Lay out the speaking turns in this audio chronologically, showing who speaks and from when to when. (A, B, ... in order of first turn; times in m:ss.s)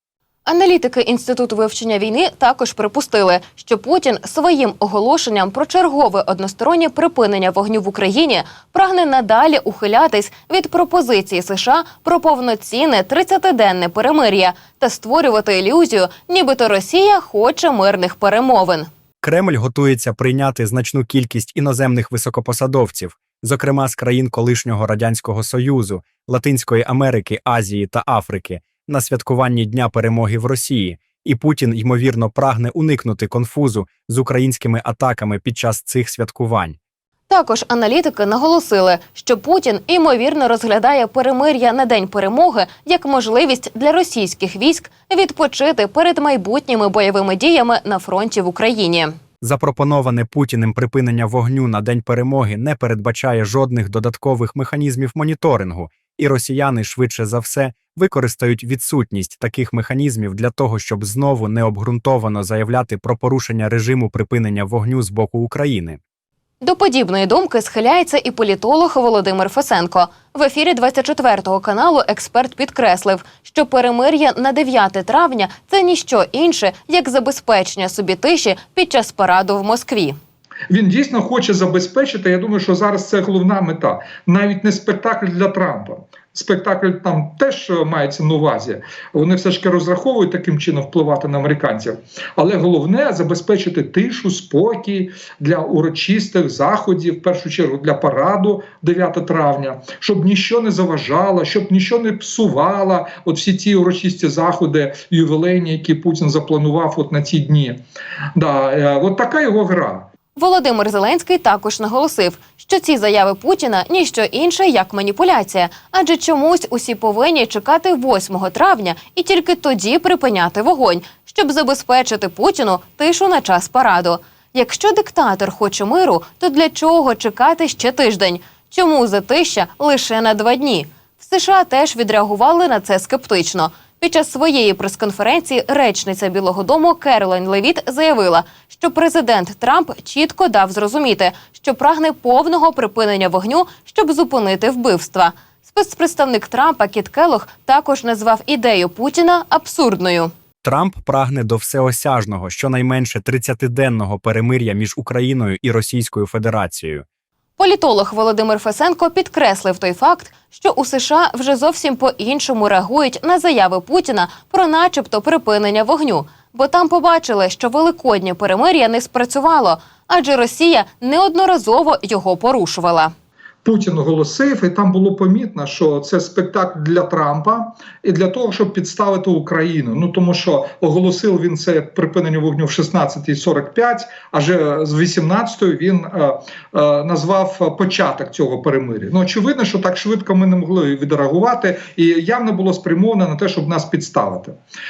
0:00.4-0:18.9 A
0:19.2-0:36.8 B
0:37.3-0:49.1 A
0:49.4-1:06.0 B
1:06.6-1:20.2 A
1:20.7-1:47.8 C
1:48.4-1:50.1 C
1:50.4-2:30.3 A
2:30.6-2:37.0 B
2:37.6-2:53.1 A
2:53.6-3:14.6 C